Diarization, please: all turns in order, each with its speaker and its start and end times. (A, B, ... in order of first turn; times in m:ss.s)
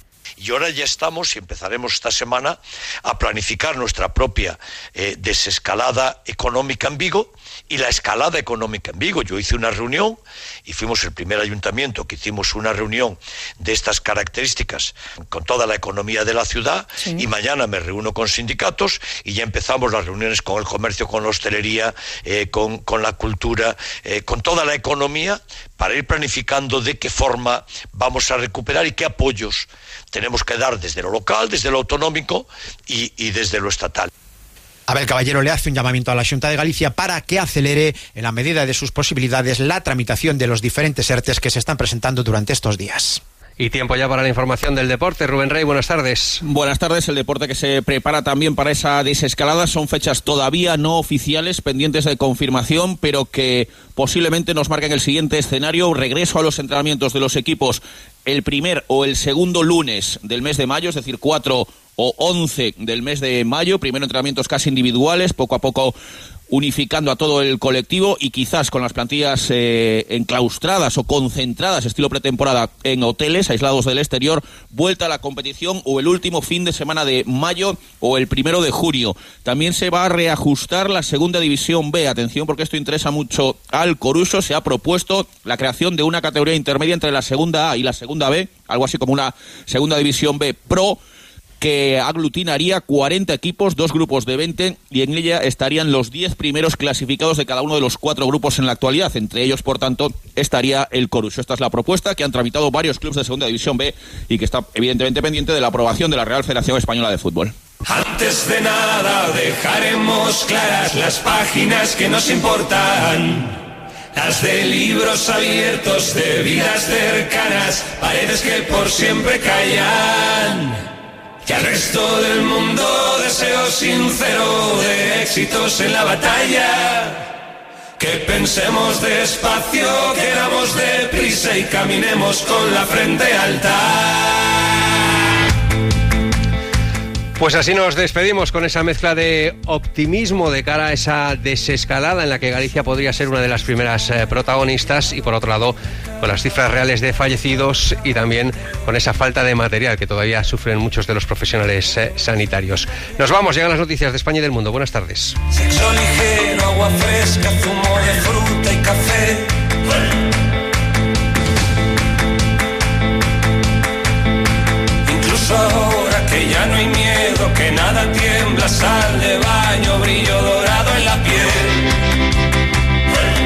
0:00.4-0:34.1 A
0:34.9-0:43.2 B
0:43.6-0:46.4 C
0:46.4-1:06.0 D
1:06.5-1:31.0 D
1:31.6-1:47.5 D
1:47.9-1:53.5 E
1:54.1-2:00.8 E
2:01.4-2:07.3 E
2:08.0-2:14.7 E
2:17.4-2:35.4 C
2:35.5-2:39.5 E
2:45.0-2:51.8 E